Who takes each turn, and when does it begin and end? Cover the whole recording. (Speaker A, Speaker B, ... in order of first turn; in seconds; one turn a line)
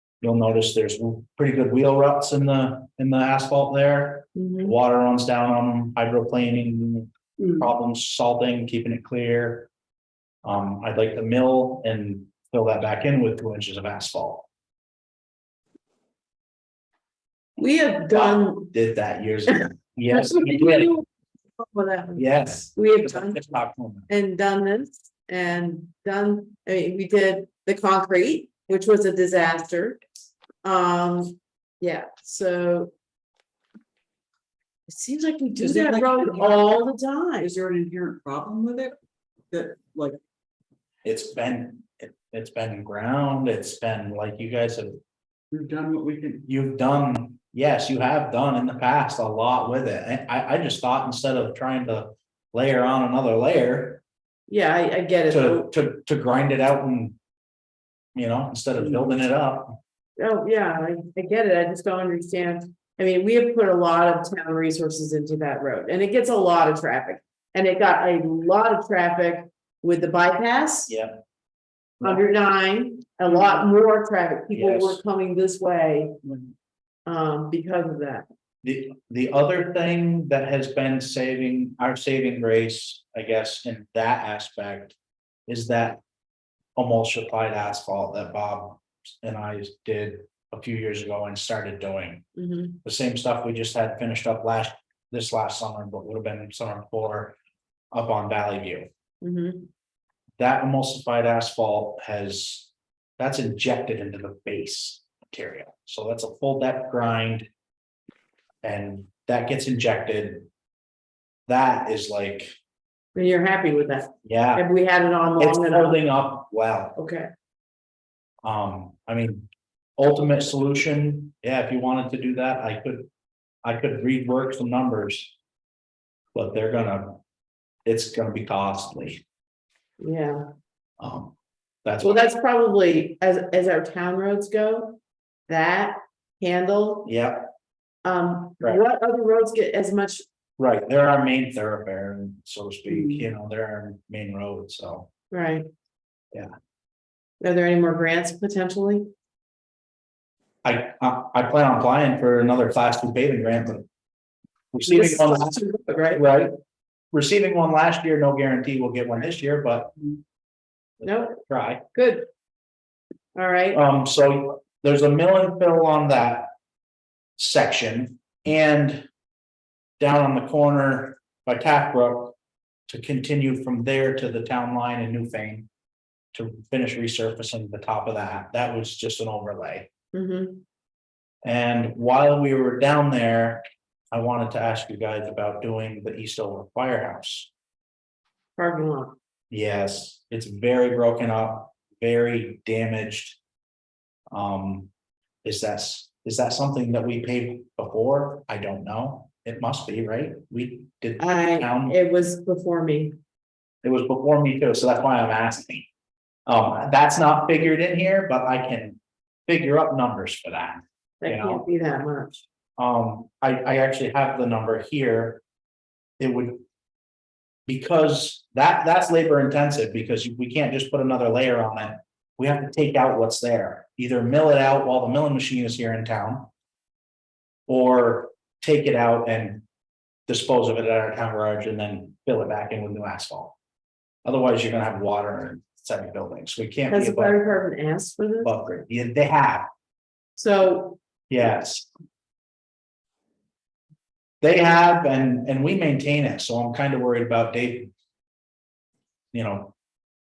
Speaker A: 0.2-9.7
Speaker B: 4.3-4.8
Speaker A: 10.4-14.5
Speaker B: 17.6-18.7
Speaker A: 18.7-20.9
Speaker B: 20.1-23.5
Speaker A: 22.1-24.1
Speaker B: 24.1-30.0
Speaker B: 30.6-32.9
Speaker B: 34.9-37.5
Speaker C: 35.5-36.8
Speaker C: 37.4-39.0
Speaker C: 39.5-40.2
Speaker A: 41.0-45.0
Speaker C: 45.5-46.4
Speaker A: 46.5-54.0
Speaker B: 54.5-55.7
Speaker A: 55.3-57.1
Speaker A: 58.1-59.8
Speaker B: 60.2-70.9
Speaker A: 70.9-71.2
Speaker B: 72.0-76.2
Speaker A: 74.5-75.0
Speaker B: 77.0-78.3
Speaker A: 78.6-86.0
Speaker A: 86.8-92.2
Speaker B: 92.3-92.8
Speaker A: 92.8-97.3
Speaker A: 97.9-98.9
Speaker B: 99.2-99.7
Speaker A: 100.4-107.5
Speaker A: 108.6-110.5
Speaker A: 111.5-112.5
Speaker B: 113.1-116.0
Speaker A: 114.2-114.6
Speaker A: 115.4-116.9
Speaker B: 117.0-117.3
Speaker A: 118.4-123.1
Speaker A: 123.6-125.3
Speaker A: 126.3-127.2
Speaker A: 127.8-129.2
Speaker B: 130.0-130.5
Speaker A: 131.0-132.2
Speaker B: 132.0-137.1
Speaker A: 137.1-137.5
Speaker B: 138.0-140.2
Speaker A: 140.6-145.1
Speaker B: 145.3-145.7
Speaker B: 147.4-149.1
Speaker A: 150.6-153.8
Speaker A: 154.7-155.6
Speaker B: 154.8-156.2
Speaker A: 156.1-156.5
Speaker A: 157.1-160.0
Speaker A: 161.0-161.8
Speaker B: 161.0-161.4
Speaker B: 161.9-162.3
Speaker B: 163.3-163.8
Speaker A: 163.7-166.5
Speaker A: 167.4-169.0
Speaker A: 170.0-172.4
Speaker A: 172.9-175.7
Speaker A: 176.3-179.9
Speaker B: 180.1-180.6
Speaker A: 181.4-187.5
Speaker B: 188.6-189.2
Speaker A: 189.5-193.4
Speaker A: 194.3-194.9
Speaker A: 195.4-201.9
Speaker B: 201.2-203.2
Speaker A: 203.8-205.9
Speaker A: 206.4-211.6
Speaker B: 211.2-212.4
Speaker A: 212.8-215.4
Speaker A: 216.2-216.6
Speaker A: 217.7-226.5
Speaker A: 227.7-229.6
Speaker A: 230.3-233.6
Speaker A: 234.2-237.4
Speaker B: 236.9-238.6
Speaker A: 238.4-239.7
Speaker B: 240.3-241.0
Speaker A: 241.3-241.9
Speaker A: 244.4-247.9
Speaker A: 249.3-249.7